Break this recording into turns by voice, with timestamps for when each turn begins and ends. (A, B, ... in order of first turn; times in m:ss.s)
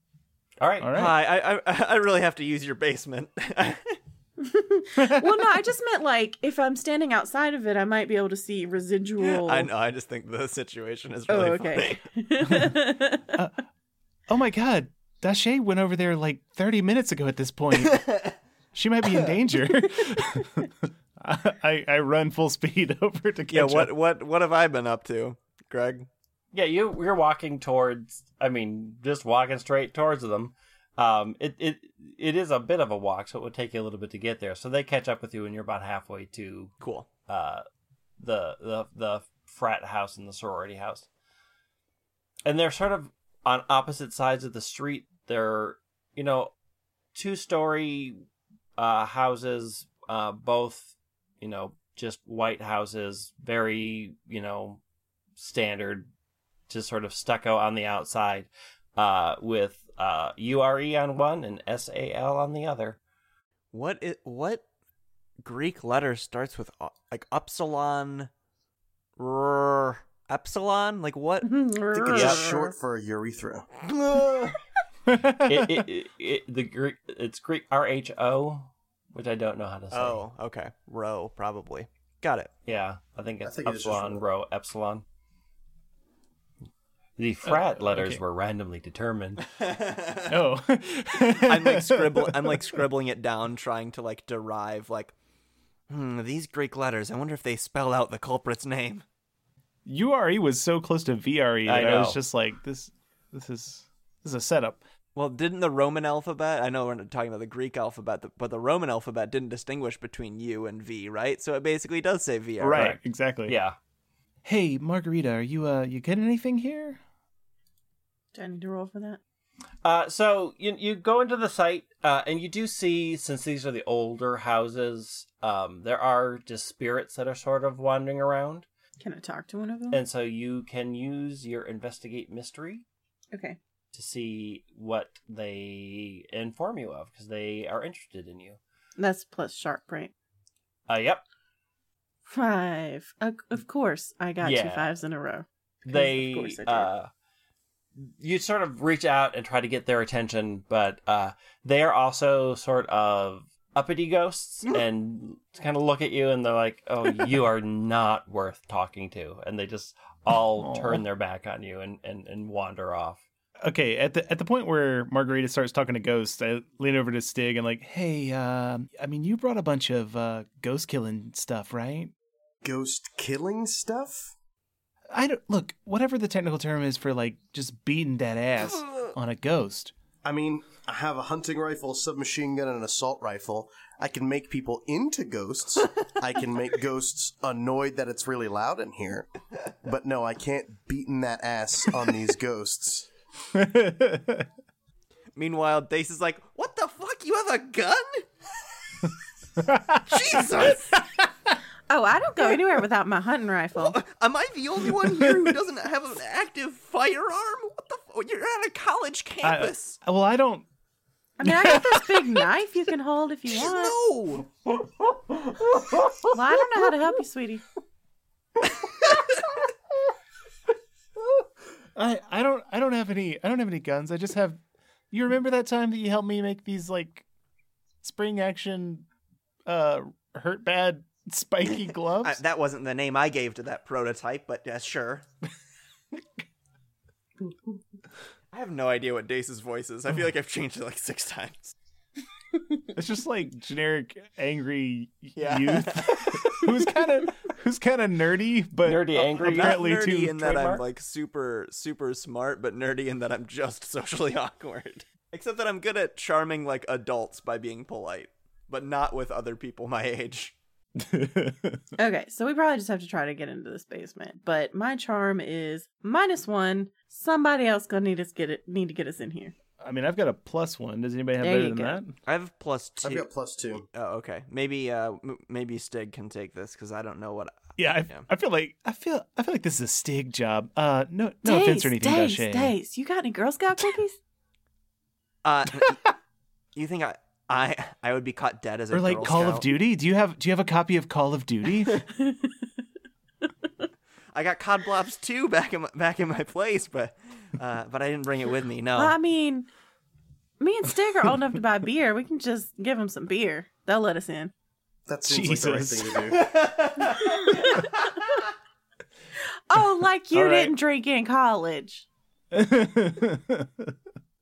0:00.6-0:00.9 A
0:00.8-0:01.2 B
0:00.9-0:04.0 C
0:04.4-0:09.7 D
0:05.0-0:05.5 B
0:09.2-0:12.1 C
0:11.3-0:13.3 D
0:13.3-0:13.6 B
0:14.3-0:18.2 B
0:17.8-0:18.4 C
0:18.7-0:23.9 B
0:23.5-0:26.1 C
0:26.5-0:36.8 A
0:36.8-0:37.1 C
0:37.3-0:37.6 A
0:38.2-0:41.1 A
0:42.4-0:46.5 A
0:47.1-0:48.2 A
0:48.8-0:54.8 A
0:55.4-0:56.1 A
0:56.7-1:03.0 A
1:03.7-1:04.6 C
1:05.4-1:08.3 C
1:09.2-1:11.5 C
1:11.4-1:12.7 D
1:11.9-1:13.7 E
1:12.1-1:12.4 A
1:13.8-1:14.6 C
1:15.1-1:15.9 B
1:15.4-1:20.2 A
1:19.9-1:22.5 C
1:22.7-1:25.0 A
1:23.4-1:24.2 E
1:27.2-1:29.5 A
1:27.5-1:28.2 B
1:29.5-1:30.4 C
1:30.3-1:32.8 B
1:31.3-1:35.1 C
1:35.9-1:39.0 C
1:39.9-1:44.8 B
1:41.7-1:42.2 A
1:45.2-1:53.0 C
1:52.6-1:53.6 B
1:52.7-1:53.8 A
1:54.4-1:57.0 B
1:58.4-1:59.2 D
1:59.8-2:08.7 A
2:09.0-2:10.0 D
2:09.9-2:12.8 A
2:13.3-2:13.6 D
2:13.9-2:18.6 A
2:19.0-2:20.1 D
2:20.9-2:21.2 A
2:22.3-2:26.9 D
2:24.4-2:24.9 A
2:25.9-2:27.1 A
2:28.0-2:43.2 A
2:40.6-2:41.0 B
2:43.6-2:52.1 B
2:52.6-2:54.3 E
2:55.1-2:59.9 B
2:58.8-2:59.1 C
3:00.2-3:09.3 E
3:09.8-3:13.1 E
3:13.5-3:14.5 B
3:15.3-3:18.2 C
3:19.6-3:21.2 B
3:20.1-3:21.0 C
3:21.9-3:24.0 D
3:23.8-3:30.0 C
3:25.0-3:25.6 B
3:29.4-3:30.7 B
3:31.4-3:34.0 D
3:31.4-3:32.3 B
3:33.5-3:34.5 C
3:35.3-3:36.3 B
3:36.3-3:37.6 D
3:42.0-3:44.6 B
3:45.1-3:47.2 B
3:48.0-3:49.1 B
3:49.7-3:52.4 B
3:52.2-3:55.3 C
3:58.5-4:01.7 C
4:02.9-4:10.4 B
4:05.4-4:06.6 C
4:08.8-4:10.8 A
4:09.2-4:20.6 C
4:21.0-4:21.8 B
4:22.0-4:29.6 D
4:29.8-4:32.2 B
4:31.4-4:32.0 D
4:32.2-4:33.3 C
4:33.0-4:33.9 E
4:33.9-4:38.3 C
4:37.8-4:42.8 B
4:41.4-4:44.2 D
4:45.4-4:46.1 C
4:46.8-4:49.7 C
4:48.9-4:52.0 B
4:54.3-4:59.2 C
4:58.9-4:59.7 D
5:00.6-5:04.5 D
5:05.1-5:06.5 E
5:05.3-5:06.4 B
5:06.4-5:07.9 C
5:07.1-5:08.1 D
5:09.7-5:12.1 D
5:10.3-5:10.7 B
5:12.5-5:13.9 B